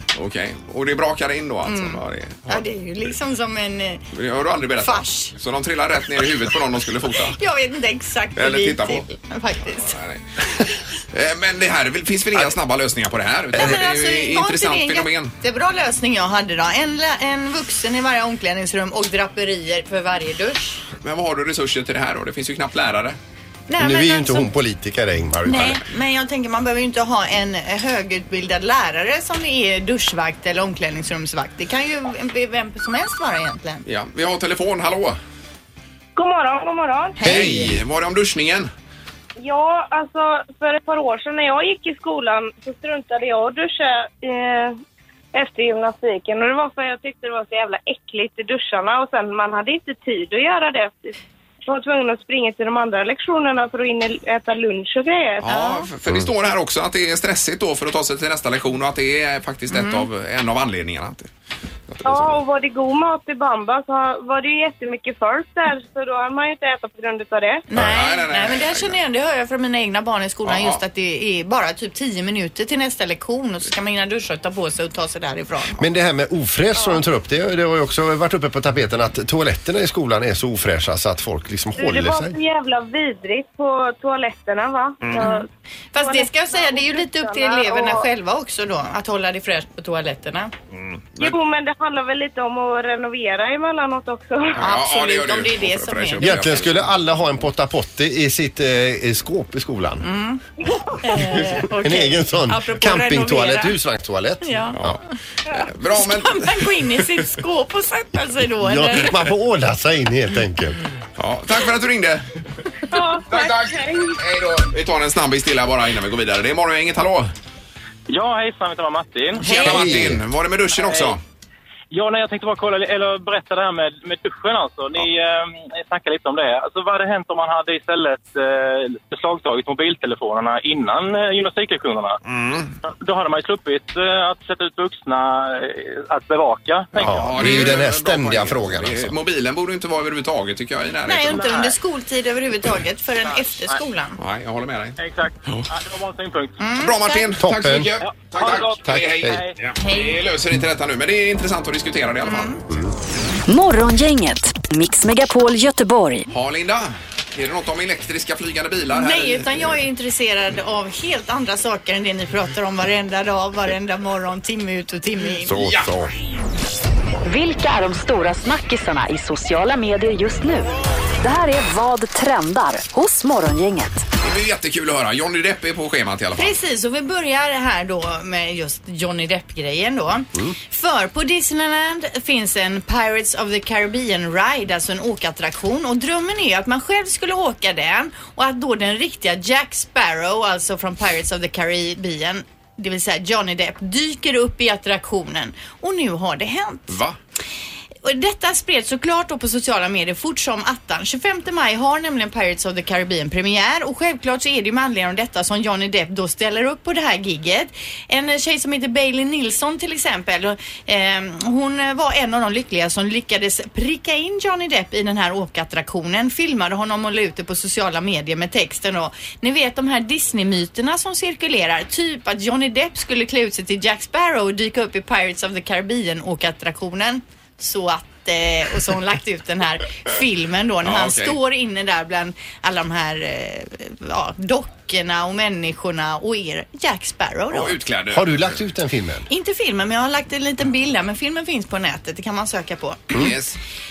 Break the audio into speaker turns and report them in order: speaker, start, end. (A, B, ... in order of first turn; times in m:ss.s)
0:00.1-0:02.6 A
0:01.7-0:04.0 B
0:04.1-0:07.4 A
0:04.8-0:05.3 B
0:07.3-0:10.0 B
0:08.4-0:09.1 A
0:09.9-0:15.3 A
0:13.5-0:20.8 B
0:21.0-0:23.2 A
0:23.7-0:24.5 B
0:23.8-0:25.8 C
0:25.4-0:33.8 B
0:33.9-0:35.2 A
0:36.2-0:37.2 D
0:37.2-0:37.8 B
0:37.2-0:38.7 A
0:39.4-0:44.8 D
0:45.3-0:55.4 D
0:55.4-1:01.3 A
0:55.5-0:55.9 B
0:59.7-1:00.1 B
1:01.9-1:02.4 A
1:02.0-1:07.6 D
1:07.7-1:15.8 B
1:07.8-1:09.0 A
1:10.4-1:10.8 A
1:15.8-1:22.4 C
1:21.8-1:28.1 D
1:25.0-1:25.3 A
1:25.9-1:30.5 B
1:30.7-1:31.4 A
1:31.2-1:34.6 D
1:34.6-1:36.9 A
1:34.6-1:36.6 B
1:36.2-1:40.1 C
1:40.0-1:40.4 B
1:41.0-1:43.8 B
1:41.4-1:45.0 C
1:44.4-1:44.8 B
1:45.5-1:47.0 A
1:45.6-1:49.2 B
1:48.6-1:50.8 C
1:51.2-1:52.2 A
1:52.9-1:54.2 D
1:53.3-1:57.3 A
1:58.1-1:59.9 E
1:59.4-2:01.2 A
1:59.5-2:00.2 C
2:00.7-2:01.2 E
2:01.9-2:12.2 E
2:12.3-2:12.8 A
2:12.8-2:17.2 E
2:17.0-2:21.6 A
2:17.0-2:19.2 C
2:21.1-2:24.2 B
2:21.3-2:21.7 E
2:23.3-2:23.8 E
2:24.2-2:25.7 A
2:25.0-2:26.6 E
2:26.6-2:27.2 B
2:26.8-2:32.6 A
2:27.4-2:28.0 C
2:28.0-2:29.6 E
2:28.8-2:29.4 C
2:32.2-2:32.6 B
2:33.5-2:36.3 F
2:36.3-2:39.7 A
2:38.9-2:45.5 B
2:45.4-2:46.1 C
2:45.6-2:45.9 A
2:47.2-2:50.7 F
2:51.2-2:54.0 F
2:54.2-2:56.6 A
2:56.4-3:17.0 B
3:16.9-3:17.2 A
3:18.0-3:57.8 B
3:50.8-3:51.4 A
3:57.5-3:58.6 A
3:58.1-3:59.3 C
3:59.3-4:03.2 B
4:03.1-4:03.6 A